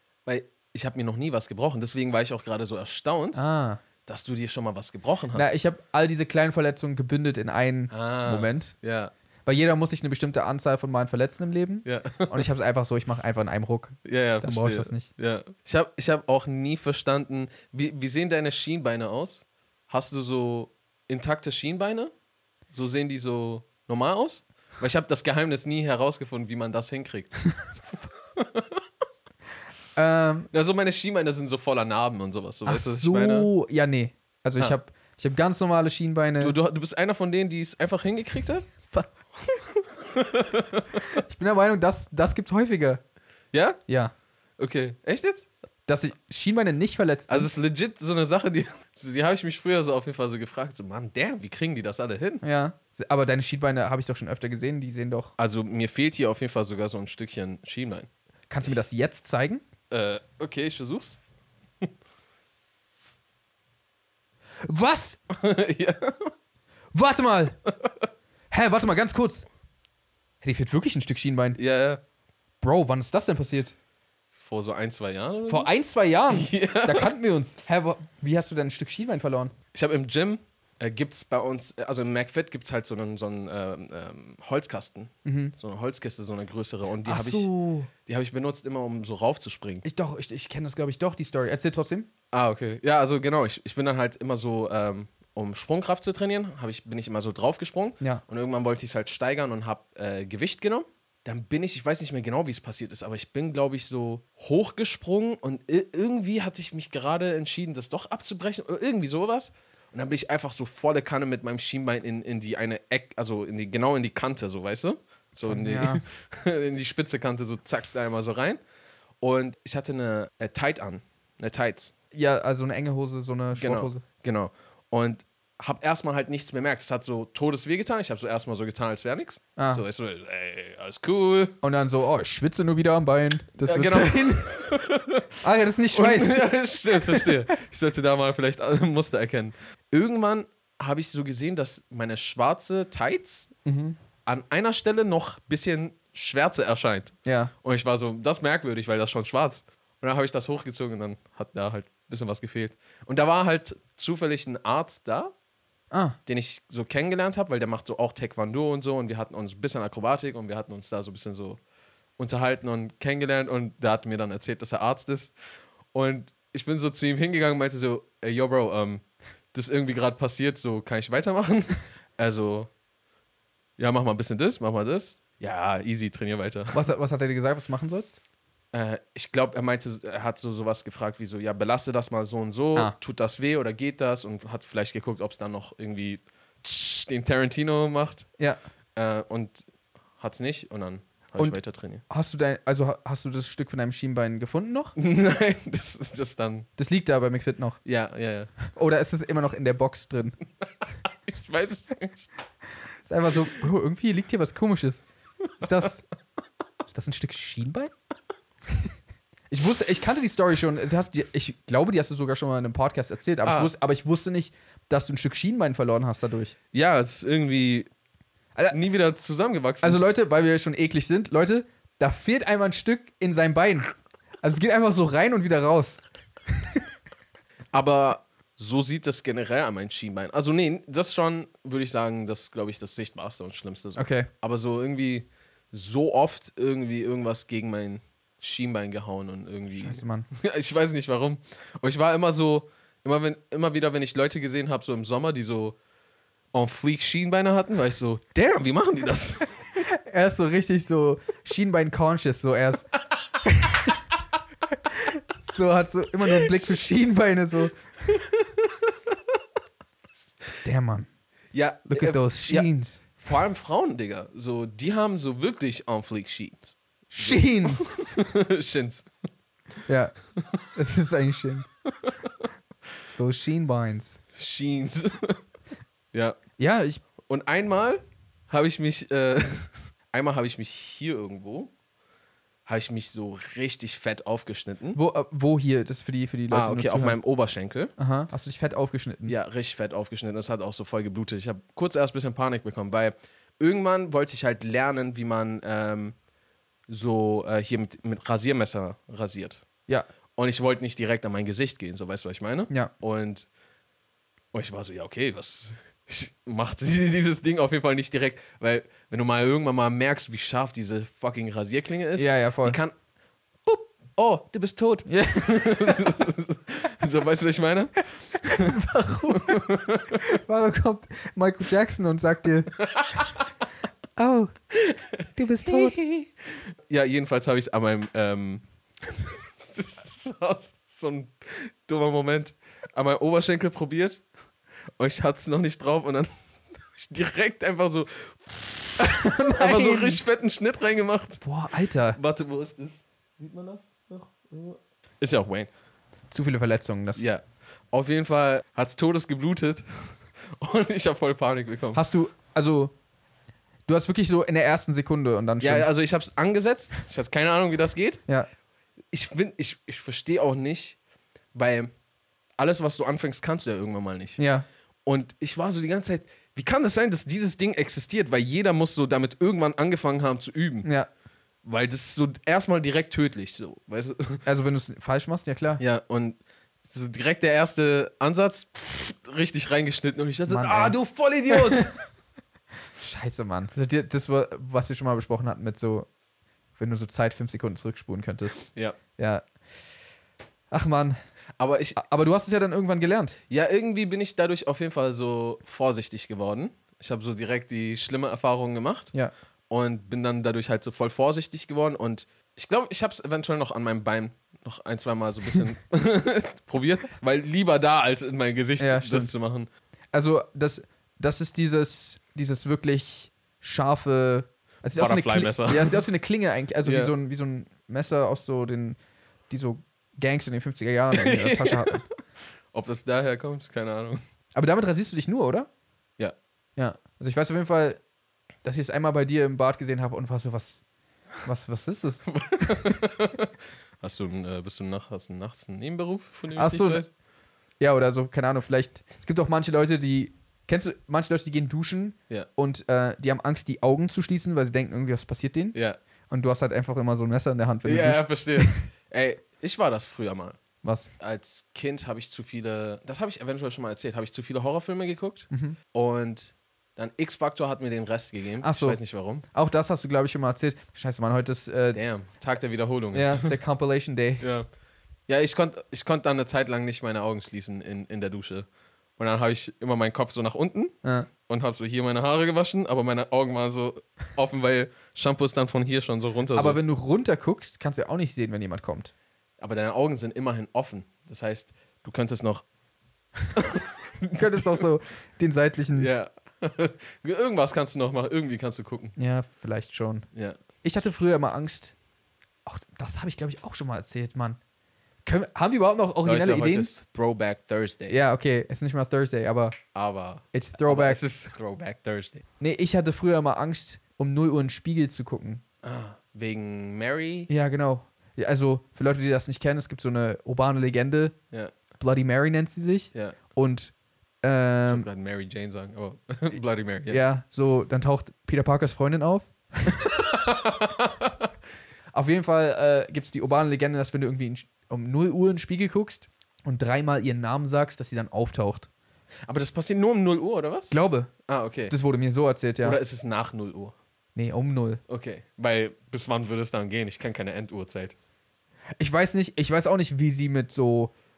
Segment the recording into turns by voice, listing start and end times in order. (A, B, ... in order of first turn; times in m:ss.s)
0:00.3-0:03.4 A
0:03.4-0:03.8 B
0:04.0-0:05.5 A
0:05.4-0:08.8 B
0:07.9-0:09.1 A
0:09.5-0:15.1 B
0:11.8-0:12.4 A
0:14.0-0:22.1 A
0:22.7-0:27.5 A
0:28.4-0:28.8 A
0:30.0-0:30.5 B
0:30.5-0:33.5 A
0:32.7-0:36.6 B
0:36.4-0:38.7 A
0:39.4-0:41.2 A
0:41.1-0:43.0 B
0:43.5-0:43.8 A
0:43.9-0:44.1 B
0:44.6-0:45.5 A
0:45.9-0:47.5 B
0:47.3-0:52.4 A
0:52.4-0:55.3 B
0:55.4-0:58.1 A
0:58.5-0:59.6 B
0:59.9-1:01.2 A
1:04.6-1:05.2 B
1:05.3-1:06.3 A
1:06.9-1:07.6 B
1:08.5-1:09.5 B
1:10.4-1:11.6 B
1:11.6-1:12.0 A
1:12.6-1:13.8 B
1:14.4-1:15.7 A
1:15.5-1:19.5 B
1:16.3-1:17.1 A
1:19.7-1:27.5 A
1:25.2-1:25.5 B
1:27.0-1:27.9 B
1:28.0-1:29.8 A
1:29.8-1:32.1 B
1:32.3-1:58.6 A
1:55.4-1:56.0 B
1:59.2-2:01.9 A
2:02.1-2:04.0 B
2:03.6-2:11.6 A
2:09.6-2:09.8 B
2:11.6-2:14.5 B
2:13.6-2:15.3 A
2:15.4-2:17.4 B
2:15.9-2:23.5 A
2:23.6-2:24.0 B
2:24.3-2:35.3 A
2:27.2-2:27.5 B
2:35.9-2:36.2 B
2:36.3-2:41.6 A
2:42.2-2:45.3 A
2:45.9-2:52.7 A
2:53.8-2:56.8 A
2:56.7-2:58.2 B
2:58.7-3:08.3 A
3:09.0-3:09.6 A
3:10.2-3:12.0 A
3:11.4-3:15.0 B
3:15.0-3:16.7 A
3:16.8-3:17.8 B
3:17.8-3:18.5 A
3:18.7-3:20.4 B
3:21.1-3:22.3 A
3:23.0-3:25.1 B
3:25.6-3:26.0 B
3:26.9-3:27.9 B
3:29.5-3:36.5 B
3:33.4-3:33.7 A
3:36.7-3:37.9 A
3:38.7-3:40.0 A
3:39.8-3:46.8 B
3:47.7-4:05.8 A
3:54.0-3:54.3 B
3:59.8-4:00.3 B
4:06.5-4:09.7 A
4:09.8-4:12.9 B
4:13.4-4:14.0 B
4:14.9-4:17.8 B
4:16.4-4:16.7 A
4:18.1-4:18.9 A
4:20.6-4:21.1 B
4:21.5-4:29.1 A
4:21.9-4:23.0 B
4:27.1-4:28.0 B
4:29.9-4:30.2 B
4:30.4-4:30.6 A
4:30.8-4:31.7 B
4:31.9-4:32.5 A
4:33.2-4:34.2 B
4:34.4-4:35.4 A
4:36.6-4:37.0 B
4:37.2-4:41.7 A
4:42.7-4:45.0 A
4:45.0-4:47.2 B
4:46.5-4:47.9 A
4:48.0-4:49.3 B
4:49.3-4:56.2 A
4:56.9-4:59.6 A
5:00.4-5:03.5 A
5:04.5-5:12.9 A
5:12.2-5:12.8 B
5:13.7-5:18.7 A
5:15.1-5:16.1 B
5:18.4-5:19.6 B
5:19.3-5:20.3 A
5:20.2-5:22.7 B
5:22.8-5:23.5 A
5:24.2-5:24.6 B
5:24.8-5:26.3 A
5:25.4-5:26.0 B
5:26.9-5:34.2 A
5:35.0-5:36.3 A
5:36.9-5:41.4 A
5:39.0-5:40.2 B
5:41.4-5:42.2 B
5:42.2-5:45.7 A
5:46.3-5:47.3 B
5:47.2-5:52.0 A
5:51.9-5:52.9 B
5:53.9-5:55.9 B
5:55.6-5:58.2 A
5:59.1-6:01.0 A
6:01.5-6:01.9 A
6:02.6-6:04.4 A
6:04.4-6:04.7 B
6:05.1-6:10.9 A
6:10.8-6:11.1 B
6:11.6-6:14.4 A
6:14.5-6:15.8 B
6:15.8-6:21.9 A
6:20.5-6:21.0 B
6:21.5-6:21.9 B
6:23.0-6:26.1 B
6:26.8-6:28.6 B
6:29.2-6:29.5 B
6:30.7-6:31.2 B
6:31.6-6:32.0 A
6:32.0-6:33.4 B
6:33.5-6:39.1 A
6:39.7-6:49.7 A
6:48.8-6:49.3 B
6:50.1-6:59.0 B
6:55.0-6:56.0 A
6:56.8-6:57.1 A
6:59.5-7:02.0 B
7:01.1-7:02.1 A
7:02.7-7:04.2 A
7:04.5-7:05.7 B
7:06.8-7:08.0 B
7:08.6-7:10.8 B
7:11.4-7:13.0 B
7:12.3-7:17.1 A
7:16.6-7:17.0 B
7:17.8-7:25.8 B
7:25.7-7:26.0 A
7:26.3-7:28.8 B
7:27.8-7:30.6 A
7:30.8-7:31.1 B
7:31.2-7:39.4 A
7:35.5-7:35.8 B
7:38.6-7:39.0 B
7:39.5-7:42.0 B
7:41.9-7:43.6 A
7:43.1-7:44.4 B
7:44.4-7:44.7 A
7:45.3-7:56.8 A
7:51.0-7:51.3 B
7:56.5-7:59.1 B
7:59.6-8:02.6 A
8:03.5-8:04.7 A
8:04.3-8:06.1 B
8:05.9-8:09.1 A
8:09.2-8:10.3 B
8:10.8-8:12.0 B
8:12.7-8:14.6 B
8:15.2-8:16.9 B
8:16.2-8:18.2 A
8:18.1-8:19.8 B
8:19.9-8:22.4 A
8:20.5-8:21.2 B
8:22.6-8:25.6 B
8:25.8-8:27.5 A
8:27.5-8:31.4 B
8:32.0-8:35.1 B
8:34.9-8:37.2 A
8:37.1-8:40.0 B
8:40.0-8:41.5 A
8:42.1-8:48.9 B
8:49.5-8:52.0 A
8:50.9-8:51.3 B
8:51.9-8:53.0 B
8:52.8-8:54.0 A
8:54.4-8:55.0 B
8:55.1-8:58.2 A
8:59.0-9:01.1 B